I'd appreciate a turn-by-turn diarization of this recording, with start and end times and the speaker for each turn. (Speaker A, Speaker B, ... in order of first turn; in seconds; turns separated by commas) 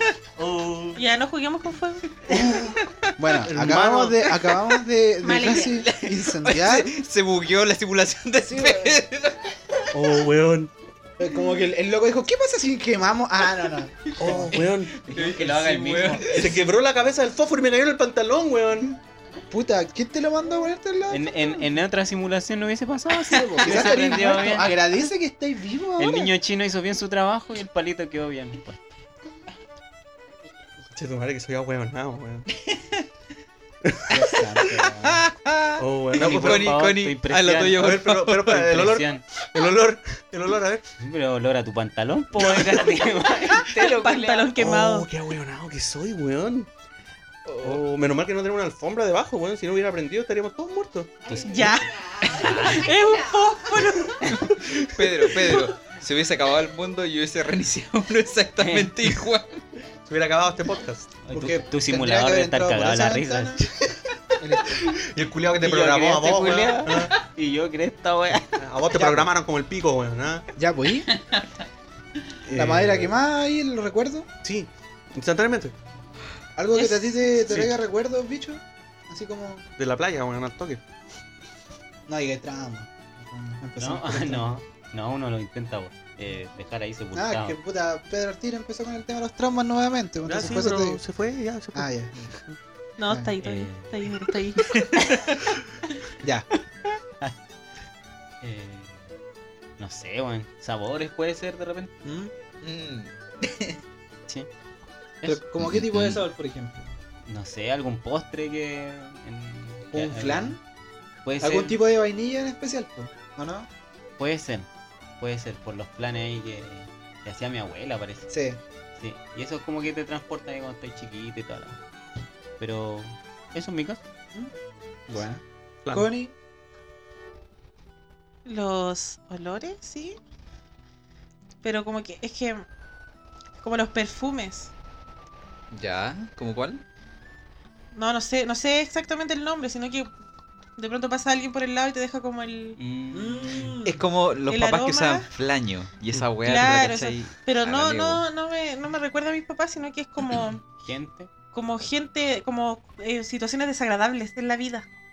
Speaker A: 0.3-1.0, Speaker B: 0.9-2.2, Speaker A: 2.3-2.8, Speaker C: 3.2-7.0, Speaker A: 3.5-4.2, Speaker B: 5.2-5.8, Speaker D: 5.7-10.0, Speaker C: 8.5-9.0, Speaker A: 9.9-10.7, Speaker C: 11.2-14.5, Speaker A: 14.2-15.0, Speaker D: 14.2-16.7, Speaker E: 14.3-16.5, Speaker A: 16.3-19.0, Speaker C: 19.5-21.7, Speaker E: 21.1-24.7, Speaker C: 23.4-26.3, Speaker E: 26.0-28.8, Speaker A: 30.9-32.5, Speaker D: 32.6-33.0, Speaker A: 33.8-34.2, Speaker C: 34.1-35.2, Speaker D: 34.8-38.6, Speaker A: 35.8-36.7, Speaker E: 36.1-39.2, Speaker A: 37.7-40.8, Speaker E: 41.0-44.5, Speaker A: 42.4-42.9, Speaker B: 43.6-45.1, Speaker A: 44.6-46.7, Speaker D: 47.5-47.8, Speaker A: 47.6-51.2, Speaker E: 51.3-52.9, Speaker B: 51.4-54.3, Speaker D: 54.3-59.6, Speaker A: 54.6-55.6, Speaker E: 58.6-58.9, Speaker A: 60.0-61.1, Speaker E: 61.2-63.5, Speaker C: 61.3-63.7, Speaker C: 64.4-64.8, Speaker A: 64.7-67.1, Speaker E: 65.6-68.6, Speaker A: 68.6-70.5, Speaker C: 68.9-69.3, Speaker C: 70.5-71.1, Speaker A: 72.4-73.1, Speaker C: 72.5-74.3, Speaker A: 74.4-75.7, Speaker C: 76.5-79.6, Speaker B: 76.7-77.2, Speaker A: 77.5-77.7, Speaker A: 79.8-80.8, Speaker C: 82.1-84.5, Speaker E: 83.8-87.6, Speaker C: 87.1-91.0, Speaker A: 90.2-92.6, Speaker C: 91.7-92.3, Speaker B: 93.0-94.8, Speaker E: 93.4-93.9, Speaker D: 94.6-95.5, Speaker C: 96.2-96.5, Speaker E: 98.4-99.0, Speaker E: 99.8-101.9, Speaker C: 102.0-102.3, Speaker D: 102.6-103.1, Speaker E: 105.2-106.1, Speaker C: 105.2-106.9, Speaker E: 107.3-110.5, Speaker C: 109.9-110.6, Speaker E: 111.2-111.8, Speaker C: 111.4-113.7, Speaker E: 114.2-114.7, Speaker E: 115.2-118.3, Speaker C: 118.3-118.6, Speaker E: 119.0-121.8, Speaker E: 122.6-124.0, Speaker C: 125.1-126.3, Speaker B: 128.4-130.2, Speaker B: 131.6-132.6, Speaker B: 133.6-134.7, Speaker D: 135.7-136.8, Speaker B: 137.9-140.1, Speaker B: 140.8-142.8, Speaker E: 142.8-143.8, Speaker C: 143.1-144.0, Speaker D: 143.8-148.2, Speaker B: 144.5-145.3, Speaker B: 146.4-150.6, Speaker E: 150.8-151.3, Speaker B: 151.5-154.9